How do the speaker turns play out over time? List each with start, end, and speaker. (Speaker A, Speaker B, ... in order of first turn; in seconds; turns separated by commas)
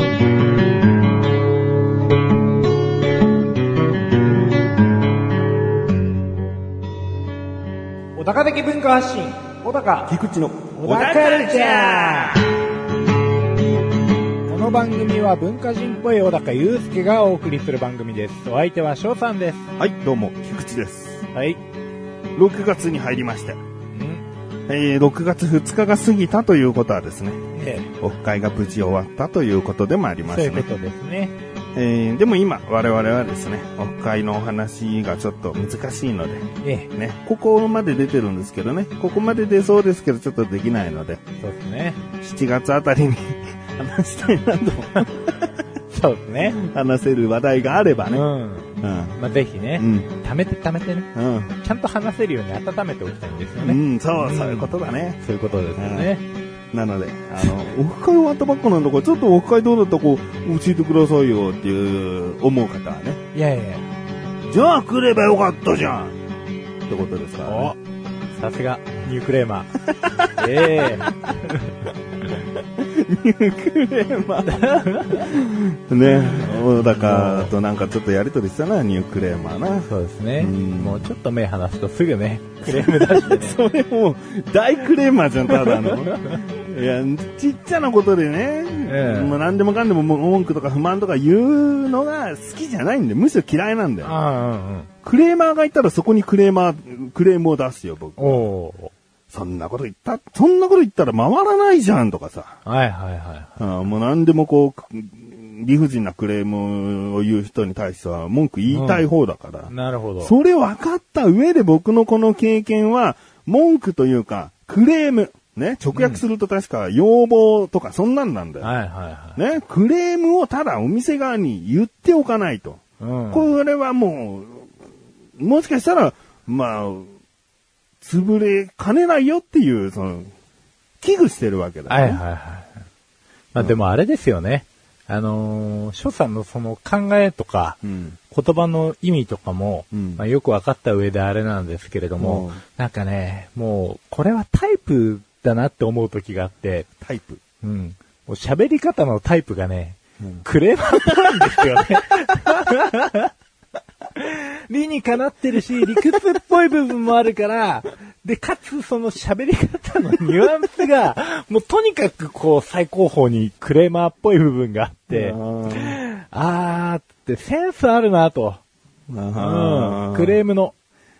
Speaker A: 8.2-10.1, Speaker B: 10.1-12.5, Speaker A: 10.7-12.4, Speaker A: 14.5-19.7, Speaker B: 19.8-21.3, Speaker A: 21.3-21.6, Speaker B: 22.4-23.6, Speaker A: 23.9-24.2, Speaker B: 24.7-27.5, Speaker A: 27.6-27.9, Speaker B: 28.0-30.7, Speaker A: 30.2-31.3, Speaker B: 31.8-41.2, Speaker A: 36.6-36.9, Speaker A: 41.4-42.0, Speaker B: 42.2-45.5, Speaker A: 45.9-46.6, Speaker B: 46.4-48.3, Speaker A: 48.1-56.2, Speaker B: 48.8-49.2, Speaker B: 49.8-50.1, Speaker B: 51.1-51.5, Speaker B: 53.6-55.2, Speaker B: 55.8-56.1, Speaker B: 56.7-63.2, Speaker A: 63.3-63.9, Speaker B: 64.5-66.2, Speaker B: 66.9-67.8, Speaker A: 67.5-67.8, Speaker A: 68.4-71.7, Speaker B: 70.0-70.9, Speaker B: 72.8-81.1, Speaker A: 74.5-75.3, Speaker A: 76.4-77.5, Speaker A: 79.9-83.6, Speaker B: 82.7-94.2, Speaker A: 85.6-86.4, Speaker A: 88.8-89.4, Speaker A: 94.0-94.9, Speaker B: 95.0-98.4, Speaker A: 98.2-98.9, Speaker B: 99.3-102.6, Speaker A: 102.7-103.5, Speaker B: 103.6-109.7, Speaker A: 108.7-109.1, Speaker A: 109.7-110.3, Speaker B: 110.2-118.7, Speaker A: 115.9-116.2, Speaker A: 118.6-119.4, Speaker B: 119.4-124.7, Speaker A: 123.0-123.5, Speaker B: 125.4-127.1, Speaker B: 128.0-130.3, Speaker B: 131.0-132.2, Speaker A: 131.9-132.8, Speaker A: 133.5-146.9, Speaker B: 137.8-138.2, Speaker B: 139.9-140.2, Speaker B: 142.2-142.6, Speaker B: 147.0-147.4, Speaker A: 147.6-153.3, Speaker B: 151.0-151.6, Speaker A: 154.2-168.6, Speaker B: 165.1-166.0, Speaker B: 169.1-170.4, Speaker A: 169.4-170.8